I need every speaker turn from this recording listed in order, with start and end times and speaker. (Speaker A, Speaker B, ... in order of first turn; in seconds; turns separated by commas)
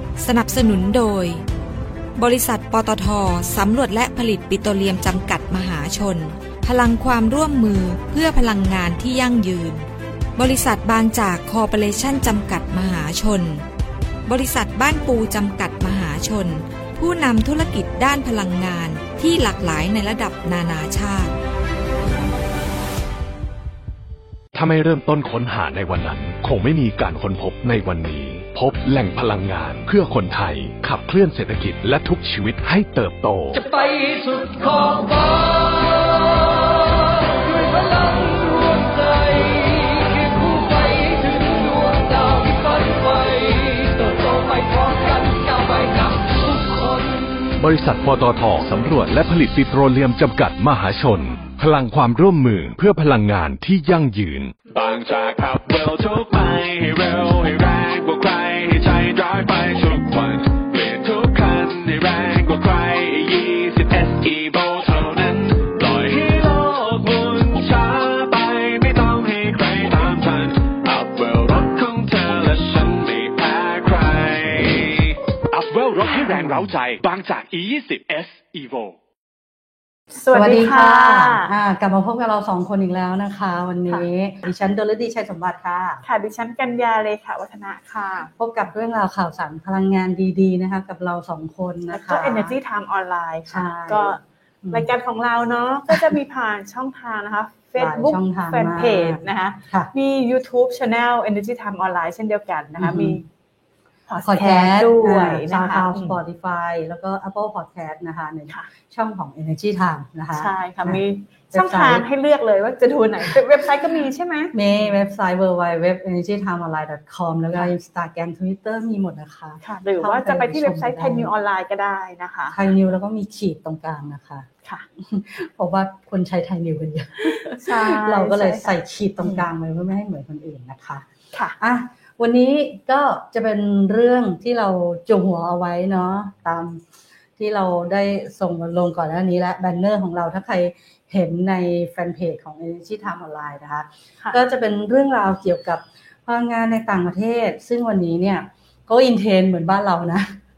Speaker A: 0.2-1.4, Speaker A: 2.2-9.8, Speaker A: 10.4-13.6, Speaker A: 14.3-21.3, Speaker B: 24.5-33.6, Speaker C: 33.5-47.4, Speaker B: 47.6-54.6, Speaker D: 54.7-79.0, Speaker E: 80.1-81.5, Speaker F: 80.3-86.0, Speaker E: 86.0-88.3, Speaker F: 88.3-92.5, Speaker E: 91.9-103.2, Speaker F: 93.5-94.9, Speaker F: 95.9-96.1, Speaker F: 97.8-99.9, Speaker F: 102.8-103.2, Speaker E: 104.1-106.2, Speaker F: 104.2-111.0, Speaker E: 110.3-114.5, Speaker F: 111.5-112.0, Speaker F: 114.5-121.3, Speaker E: 119.6-122.6, Speaker F: 122.5-131.1, Speaker E: 127.4-129.4, Speaker F: 131.6-136.8, Speaker F: 137.4-150.3